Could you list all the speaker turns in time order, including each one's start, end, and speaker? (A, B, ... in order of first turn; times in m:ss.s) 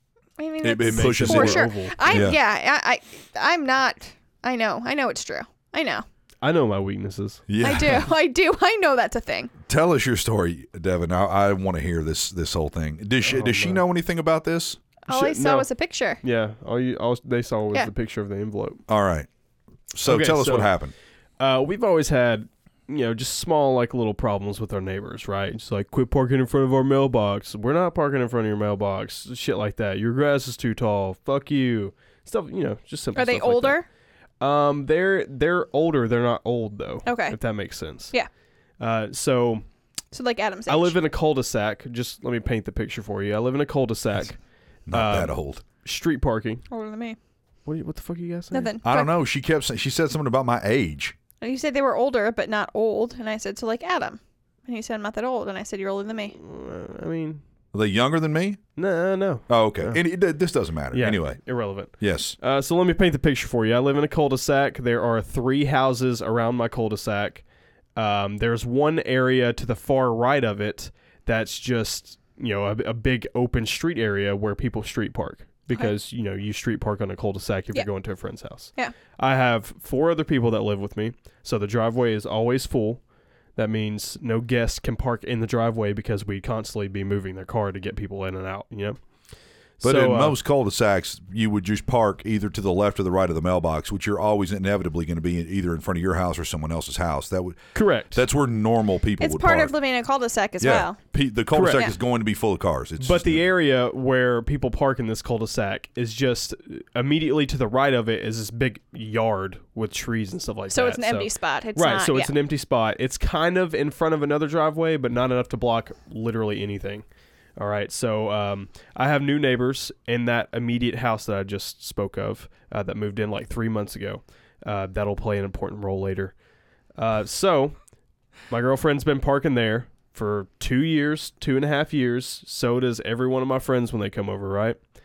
0:00.4-0:06.0 A
0:00.6-0:02.4 B
0:00.9-0:02.3 C
0:06.4-0:07.4 C
0:07.5-0:08.1 B
0:07.6-0:09.5 A
0:09.7-0:14.8 B
0:13.2-0:13.8 C
0:15.0-0:16.2 A
0:15.1-0:15.7 C
0:16.2-0:18.8 C
0:18.9-0:19.3 B
0:19.9-0:20.9 B
0:20.0-0:20.7 C
0:21.4-0:33.8 C
0:33.1-0:33.8 A
0:34.4-0:38.1 C
0:37.0-0:37.4 A
0:38.8-0:39.6 C
0:40.1-0:41.0 A
0:40.7-0:44.4 C
0:44.9-0:45.6 B
0:44.9-0:46.6 C
0:46.7-0:47.2 A
0:47.6-0:48.7 C
0:48.5-0:49.1 A
0:48.8-0:51.1 B
0:51.4-0:56.4 A
0:56.3-0:57.4 C
0:57.7-0:58.6 B
0:58.8-1:00.0 C
0:59.5-1:01.4 B
1:00.9-1:07.4 C
1:02.0-1:02.3 B
1:08.0-1:23.0 C
1:23.6-1:29.0 C
1:29.8-1:30.4 C
1:29.8-1:39.7 B
1:37.7-1:38.2 C
1:39.2-1:41.0 A
1:40.6-1:43.4 B
1:41.5-1:41.9 C
1:43.0-1:57.0 C
1:50.7-1:52.3 A
1:57.6-2:06.3 C
2:07.0-2:07.7 C
2:08.5-2:14.8 C